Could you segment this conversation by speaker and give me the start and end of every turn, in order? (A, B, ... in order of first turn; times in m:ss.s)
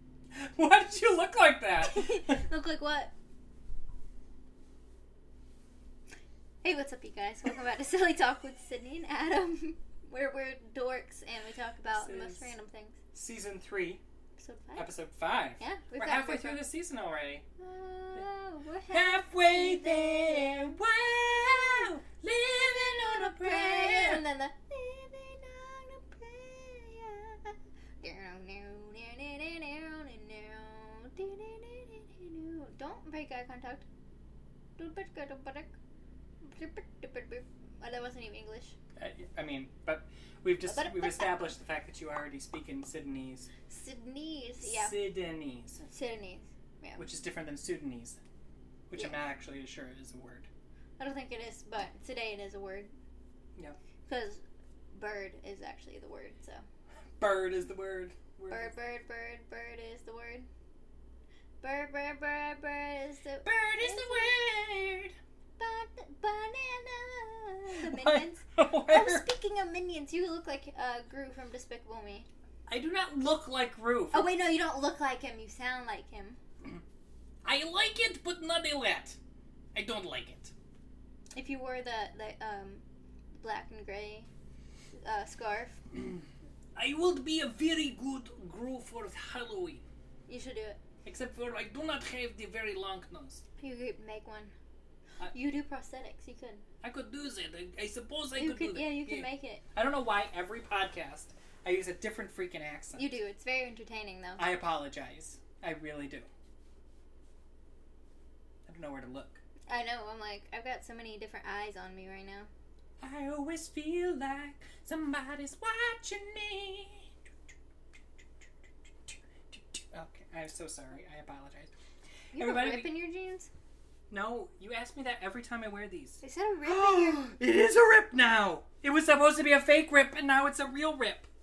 0:00.3-0:02.5 A
0:01.8-0:03.1 B
0:06.6-0:13.0 B
0:11.9-0:12.5 A
0:13.1-0:14.0 A
0:14.4-0:14.9 B
0:14.8-0:17.4 A
0:15.6-0:16.6 B
0:17.6-0:20.8 B
0:18.9-0:24.2 A
0:21.6-0:21.9 B
0:22.4-0:33.8 B
0:34.8-0:35.7 B
0:36.4-0:38.8 B
0:39.0-0:43.5 A
0:40.7-0:41.5 B
0:43.7-0:45.0 B
0:44.6-0:45.8 A
0:45.8-0:47.0 B
0:47.0-0:48.2 A
0:48.9-0:50.5 A
0:48.9-0:49.2 B
0:51.0-0:52.9 B
0:54.1-0:56.6 B
0:57.2-0:58.7 A
0:58.5-1:00.5 B
1:01.6-1:04.4 B
1:03.4-1:05.2 A
1:05.6-1:12.3 B
1:07.8-1:09.3 A
1:12.7-1:14.3 A
1:14.1-1:16.4 B
1:17.4-1:19.2 A
1:19.8-1:20.5 A
1:21.3-1:22.8 B
1:23.4-1:24.3 B
1:25.0-1:25.8 B
1:26.8-1:29.8 A
1:30.3-1:30.8 B
1:31.1-1:33.4 A
1:33.6-1:34.6 B
1:35.3-1:36.6 B
1:36.8-1:43.1 A
1:38.4-1:39.6 B
1:43.0-1:44.4 B
1:44.4-1:46.3 A
1:48.7-1:49.4 A
1:49.7-1:52.5 B
1:53.0-1:57.1 A
1:59.1-2:01.7 A
2:02.3-2:03.5 B
2:02.3-2:02.9 A
2:04.1-2:11.3 A
2:06.2-2:07.2 B